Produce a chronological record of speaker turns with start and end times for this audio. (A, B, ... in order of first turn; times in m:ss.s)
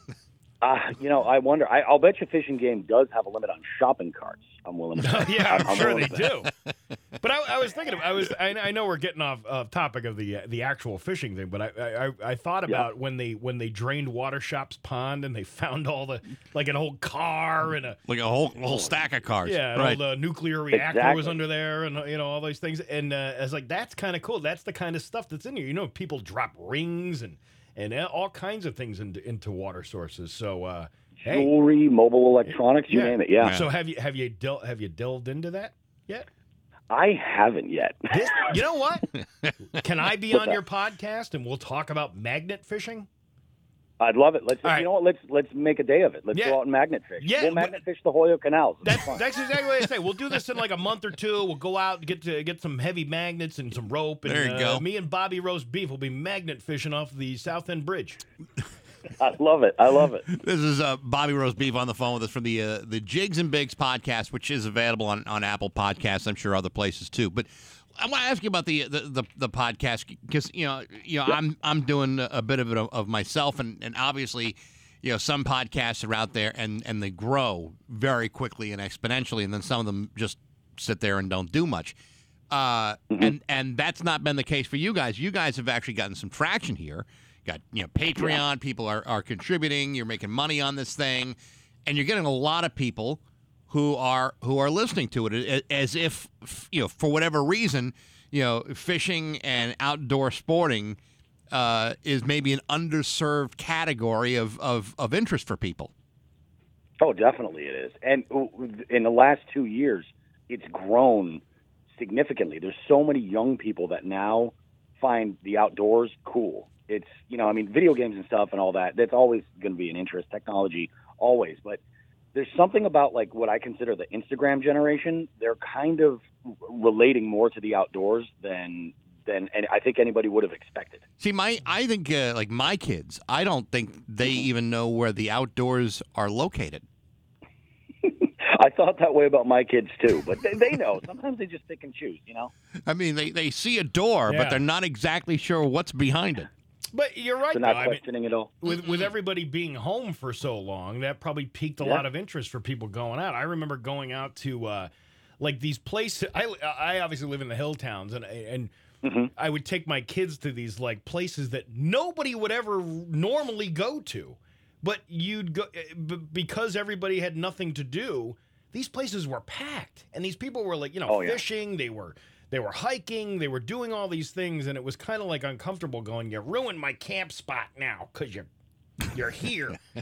0:00.6-0:06.3 A
0:05.0-0:06.5 B
0:05.5-0:06.5 C
0:07.2-0:18.0 B
0:18.1-0:20.0 C
0:19.4-0:31.5 B
0:20.7-0:21.4 A
0:31.2-0:33.6 A
0:32.5-0:36.3 B
0:33.4-0:33.7 C
0:36.9-0:38.1 A
0:38.1-0:39.1 B
0:39.7-0:43.1 B
0:40.3-0:40.6 A
0:44.0-0:49.2 A
0:46.3-0:46.6 B
0:47.2-0:47.8 B
0:48.8-0:58.2 B
0:54.2-0:54.8 C
0:59.2-1:00.2 A
1:00.3-1:21.9 C
1:22.5-1:41.0 C
1:41.5-1:45.9 C
1:47.0-2:01.8 A
2:02.3-2:11.0 A
2:11.2-2:16.8 C
2:18.0-2:22.5 A
2:22.8-2:26.5 C
2:24.3-2:24.6 B
2:26.9-2:28.0 B
2:27.5-2:28.5 A
2:28.6-2:38.7 B
2:39.0-2:39.3 A
2:39.3-2:58.5 B
2:51.1-2:51.4 A
2:59.1-2:59.8 B